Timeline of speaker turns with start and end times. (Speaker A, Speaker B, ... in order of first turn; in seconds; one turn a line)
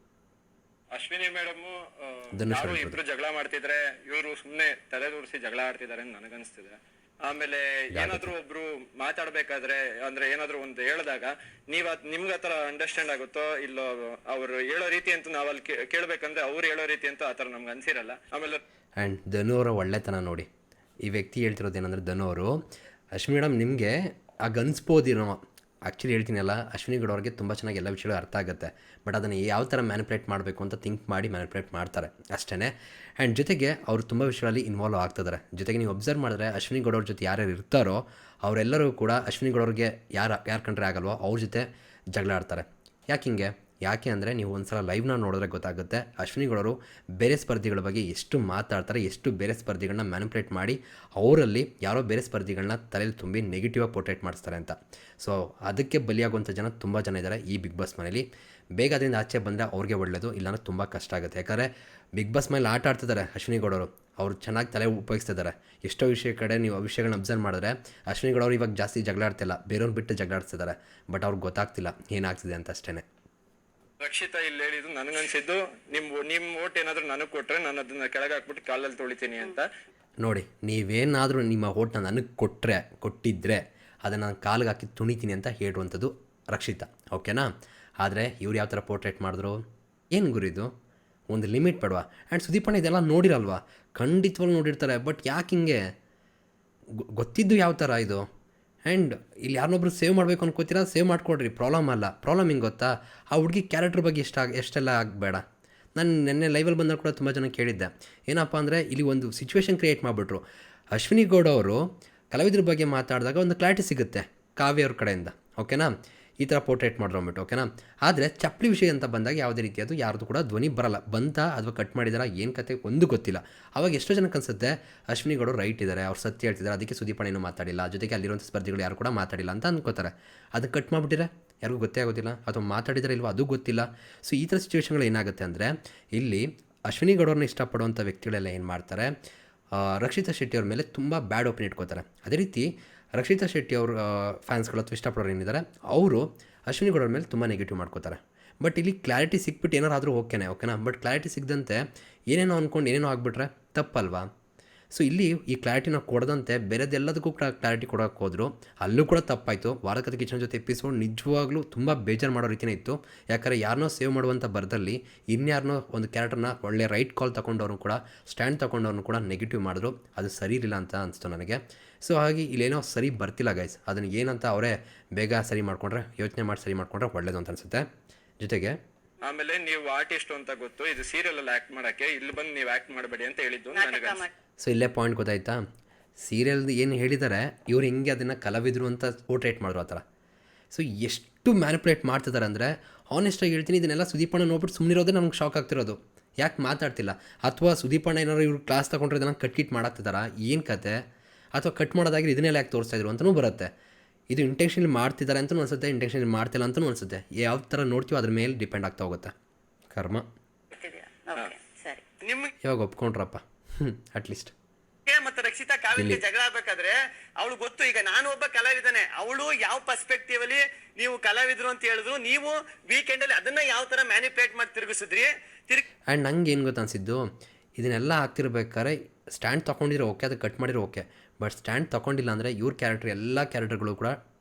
Speaker A: 0.9-18.6
Speaker B: 2.4-3.0
Speaker B: 7.9-8.3
Speaker B: 19.0-20.5
Speaker B: 21.1-22.6
Speaker B: 23.1-58.3
Speaker B: 58.8-73.0
Speaker A: 74.0-79.7
Speaker B: 80.2-87.5
Speaker B: 88.0-90.7
Speaker B: 91.3-95.8
Speaker B: 97.2-98.3
Speaker B: 98.9-105.4
Speaker B: 106.0-110.4
Speaker B: 110.9-139.1
Speaker B: 139.8-154.3
Speaker B: 154.9-177.9
Speaker B: 178.4-178.8
Speaker A: 179.2-184.3
Speaker C: 183.7-184.3
Speaker B: 184.6-185.6
Speaker B: 186.2-190.0
Speaker B: 190.7-201.0
Speaker B: 201.6-203.7
Speaker B: 204.3-209.3
Speaker B: 209.9-210.2
Speaker C: 210.7-212.0
Speaker D: 212.2-212.5
Speaker B: 212.6-214.5
Speaker D: 215.1-225.8
Speaker B: 215.9-216.2
Speaker B: 226.1-227.2
Speaker B: 227.8-234.2